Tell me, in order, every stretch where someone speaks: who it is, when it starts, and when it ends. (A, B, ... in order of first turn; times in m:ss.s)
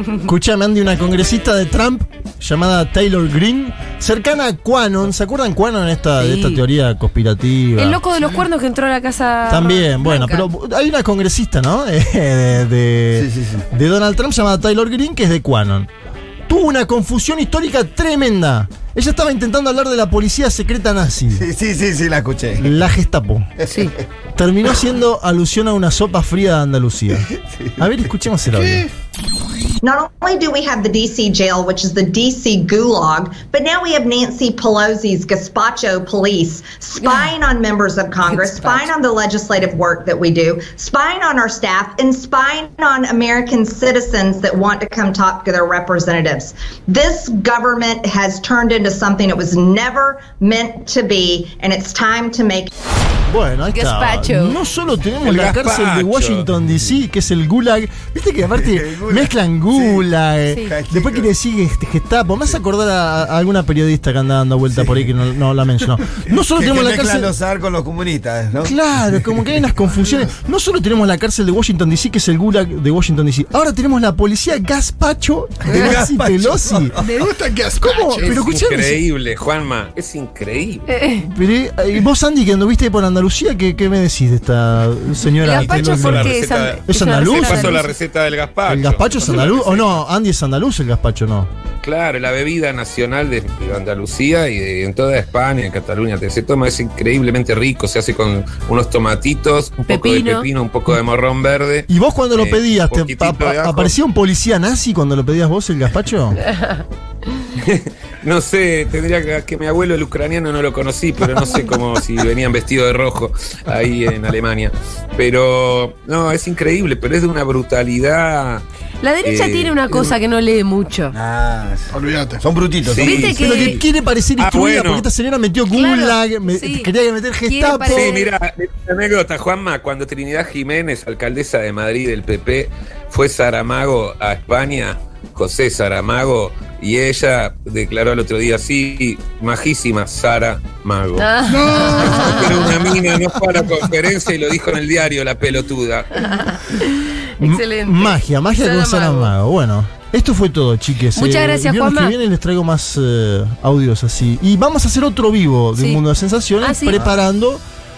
0:00.2-0:08.0 A
0:06.2-0:06.6 B
0:07.8-0:10.5 B
0:09.5-0:15.9 A
0:13.1-0:13.6 C
0:16.5-0:21.5 A
0:21.3-0:22.7 C
0:22.6-0:23.6 A
0:23.6-0:24.0 B
0:24.4-0:28.9 A
0:27.3-0:27.8 C
0:28.5-0:28.9 D
0:29.8-0:52.7 E
0:37.0-0:37.3 B
0:38.2-0:38.9 B
0:53.3-1:07.3 A
0:53.7-0:54.6 B
0:55.2-0:56.5 F
0:58.6-1:00.0 C
1:00.6-1:01.3 C
1:04.8-1:05.0 C
1:06.4-1:08.7 C
1:08.6-1:17.0 A
1:15.6-1:17.0 C
1:17.0-1:18.4 D
1:17.8-1:19.0 A
1:18.2-1:20.8 F
1:20.9-1:21.2 B
1:21.2-1:27.8 A
1:25.4-1:27.9 B
1:25.6-1:30.0 F
1:28.7-1:31.5 A
1:31.8-1:44.0 F
1:39.9-1:40.5 B
1:41.9-1:46.4 A
1:46.5-1:46.8 B
1:47.6-1:58.6 F
1:59.0-2:01.2 B
1:59.2-2:00.1 F
2:01.1-2:01.9 C
2:01.9-2:02.4 D
2:02.4-2:03.3 C
2:02.8-2:03.8 F
2:03.0-2:03.8 B
2:03.2-2:08.1 A
2:04.4-2:05.1 F
2:05.7-2:06.9 B
2:07.5-2:08.3 B
2:07.9-2:26.4 F
2:21.2-2:22.8 B
2:21.5-2:22.7 D
2:26.2-2:29.3 B
2:27.4-2:37.6 A
2:31.2-2:32.2 B
2:35.8-2:36.0 B
2:36.6-2:37.0 B